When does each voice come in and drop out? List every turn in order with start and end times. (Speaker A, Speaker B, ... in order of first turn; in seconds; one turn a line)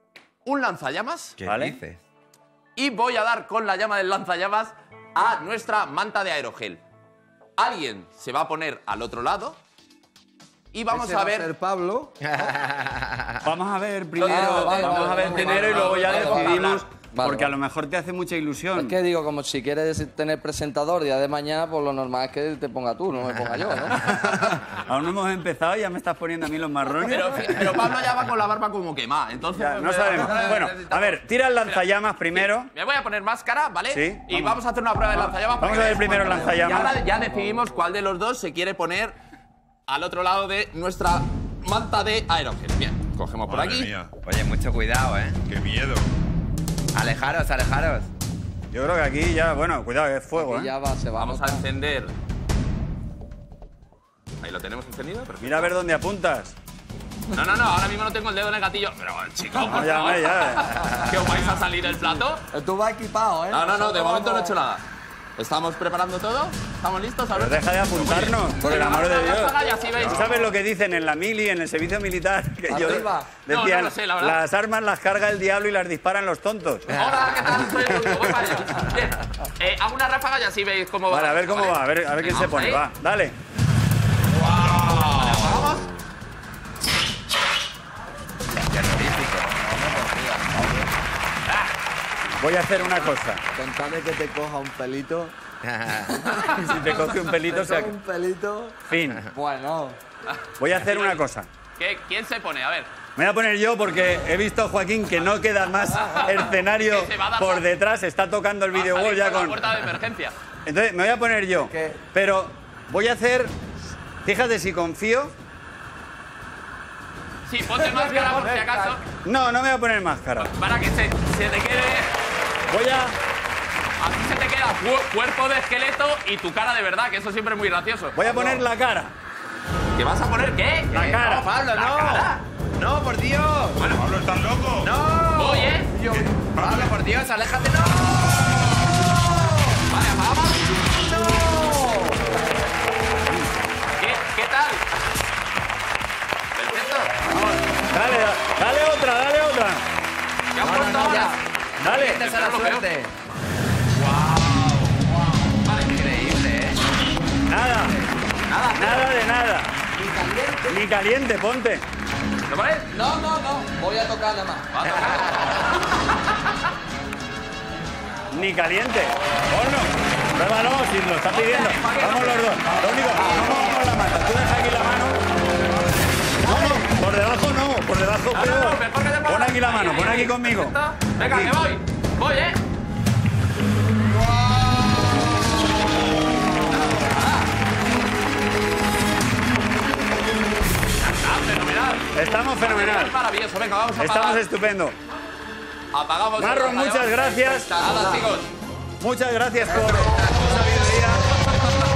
Speaker A: 0.5-1.4
Speaker B: 1.4-2.0
Speaker C: 1.4-1.8
Speaker A: 2.8-6.8
Speaker A: 7.6-9.6
Speaker A: 10.7-11.5
Speaker D: 10.9-12.3
Speaker B: 12.2-13.4
Speaker C: 13.4-19.0
Speaker A: 14.2-16.9
Speaker D: 14.2-16.6
Speaker D: 17.1-17.5
Speaker D: 18.8-24.1
Speaker C: 24.0-27.8
Speaker A: 27.0-39.2
Speaker C: 29.5-32.7
Speaker C: 33.9-34.6
Speaker C: 35.6-37.0
Speaker D: 36.3-37.6
Speaker A: 39.9-43.9
Speaker E: 43.5-44.1
Speaker B: 44.2-45.4
Speaker E: 45.5-46.1
Speaker B: 46.9-48.1
Speaker C: 48.7-50.7
Speaker D: 50.4-51.4
Speaker A: 51.2-52.1
Speaker A: 54.4-55.7
Speaker C: 55.4-56.6
Speaker A: 57.3-62.4
Speaker C: 59.6-60.7
Speaker D: 62.5-64.5
Speaker A: 63.5-64.8
Speaker A: 65.4-70.4
Speaker C: 67.3-77.0
Speaker D: 72.7-73.3
Speaker A: 73.5-74.4
Speaker A: 76.9-82.8
Speaker C: 81.1-83.3
Speaker B: 84.4-85.8
Speaker A: 84.7-85.9
Speaker B: 88.5-90.7
Speaker D: 89.8-90.8
Speaker C: 92.4-93.4
Speaker D: 93.6-95.3
Speaker B: 95.6-96.4
Speaker C: 96.3-98.0
Speaker D: 97.5-98.8
Speaker C: 98.8-99.3
Speaker D: 99.3-100.0
Speaker A: 100.3-101.2
Speaker C: 100.6-101.5
Speaker A: 101.8-102.9
Speaker C: 103.2-109.8
Speaker A: 106.8-107.7
Speaker A: 108.7-110.3
Speaker C: 110.7-113.5
Speaker C: 114.2-115.3
Speaker A: 117.5-119.0
Speaker C: 118.1-118.6
Speaker C: 119.2-120.5
Speaker A: 120.4-122.1
Speaker C: 122.7-123.2
Speaker A: 124.0-128.2
Speaker C: 128.2-129.1
Speaker A: 129.9-132.4
Speaker C: 130.9-131.5
Speaker B: 131.1-133.8
Speaker A: 133.8-134.1
Speaker E: 133.9-134.9
Speaker B: 134.8-138.2
Speaker A: 135.3-135.9
Speaker E: 136.1-136.9
Speaker A: 139.8-140.8
Speaker B: 141.1-142.1
Speaker A: 144.0-144.9
Speaker A: 146.6-147.6
Speaker C: 147.9-149.8
Speaker A: 150.5-151.4
Speaker B: 150.6-151.3
Speaker C: 151.8-152.4
Speaker B: 151.8-153.1
Speaker A: 151.9-152.9
Speaker A: 153.9-155.1
Speaker A: 155.7-156.1
Speaker B: 155.8-156.8
Speaker C: 157.5-158.0
Speaker A: 158.5-159.2
Speaker C: 158.8-159.7
Speaker D: 159.9-160.8
Speaker C: 160.7-161.8
Speaker A: 162.5-163.0
Speaker D: 162.9-164.7
Speaker A: 164.7-166.6
Speaker B: 164.8-165.5
Speaker C: 168.3-175.2
Speaker A: 171.3-173.5
Speaker D: 173.1-173.7
Speaker C: 176.4-181.6
Speaker A: 178.3-182.6
Speaker A: 186.7-187.5
Speaker A: 191.0-192.1
Speaker C: 192.1-193.2
Speaker A: 192.6-194.5
Speaker C: 194.0-195.0
Speaker A: 195.9-198.5
Speaker C: 196.4-198.1
Speaker C: 199.0-201.2
Speaker A: 200.2-201.8